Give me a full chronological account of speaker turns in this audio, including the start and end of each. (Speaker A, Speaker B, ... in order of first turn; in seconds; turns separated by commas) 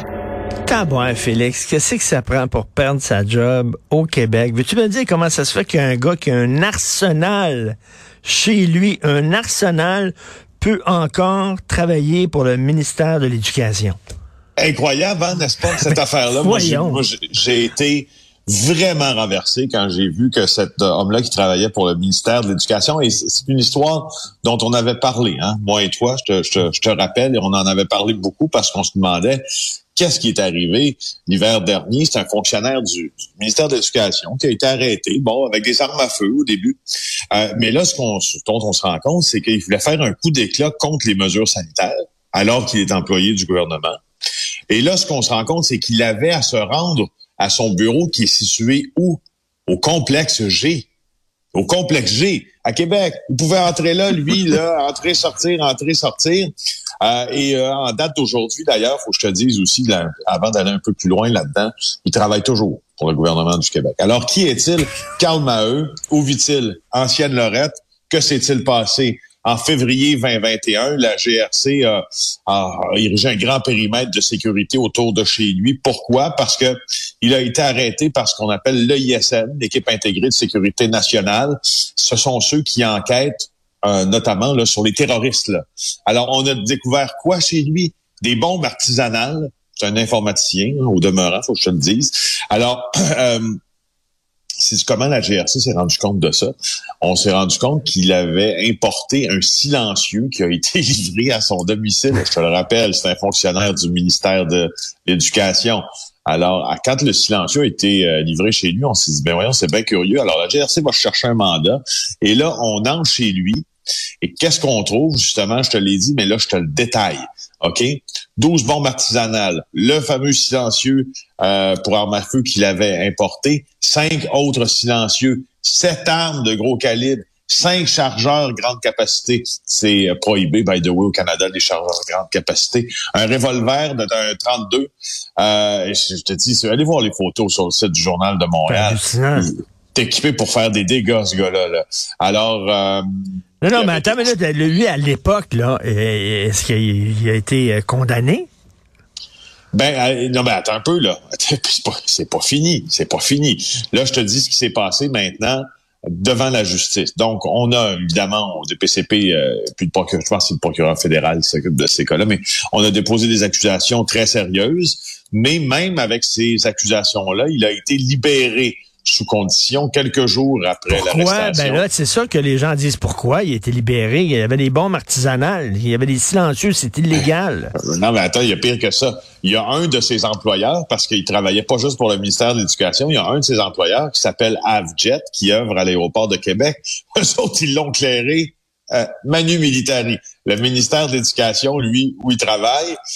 Speaker A: 0.7-14.0, Speaker B: 14.6-29.4, Speaker A: 15.8-17.0, Speaker B: 29.9-36.8, Speaker B: 37.3-44.0, Speaker B: 44.7-50.9, Speaker B: 51.5-56.5, Speaker B: 57.0-93.6, Speaker B: 94.6-113.6, Speaker B: 114.2-143.0, Speaker A: 138.7-139.5, Speaker A: 143.6-148.5, Speaker B: 143.7-144.3, Speaker B: 149.7-155.6, Speaker B: 156.2-171.8, Speaker A: 170.9-177.7, Speaker B: 177.8-192.9